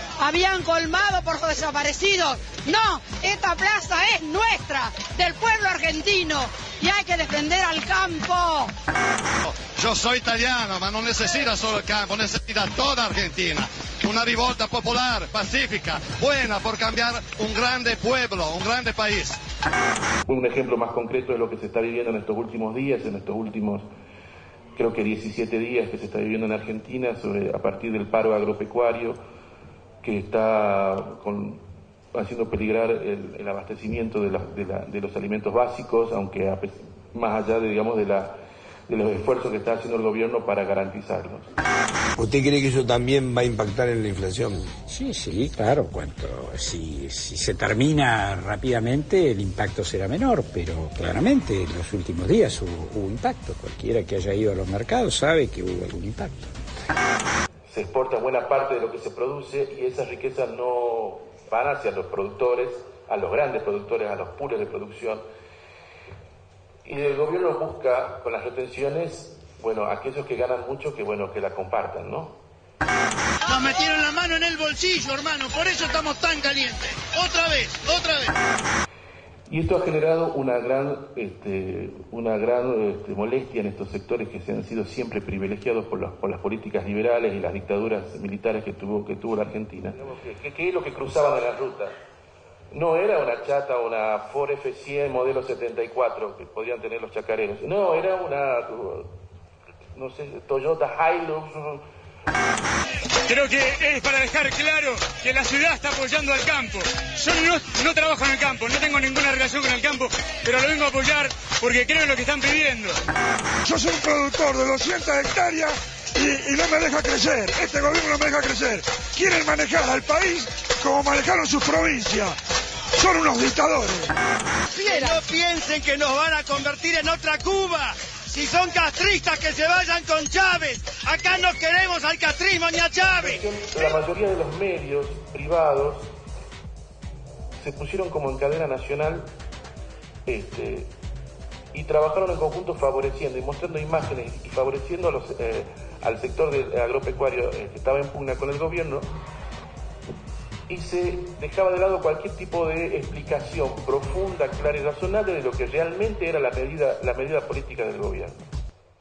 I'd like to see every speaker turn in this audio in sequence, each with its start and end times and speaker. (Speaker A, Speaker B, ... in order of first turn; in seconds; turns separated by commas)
Speaker A: 0.2-8.7, Speaker B: 9.5-19.4, Speaker C: 20.3-23.9, Speaker C: 24.8-29.2, Speaker C: 30.0-31.6, Speaker C: 32.1-38.4, Speaker C: 38.9-41.5, Speaker D: 42.2-44.7, Speaker E: 44.9-56.5, Speaker C: 57.7-65.2, Speaker C: 66.8-72.4, Speaker F: 73.5-78.3, Speaker C: 79.5-91.9, Speaker C: 92.7-99.1, Speaker C: 100.0-101.8, Speaker G: 103.3-113.0, Speaker H: 113.6-122.4, Speaker H: 123.0-124.1, Speaker F: 124.8-133.4, Speaker C: 133.2-136.1, Speaker C: 137.6-139.3, Speaker C: 140.3-140.9, Speaker C: 141.7-149.1, Speaker C: 150.7-158.4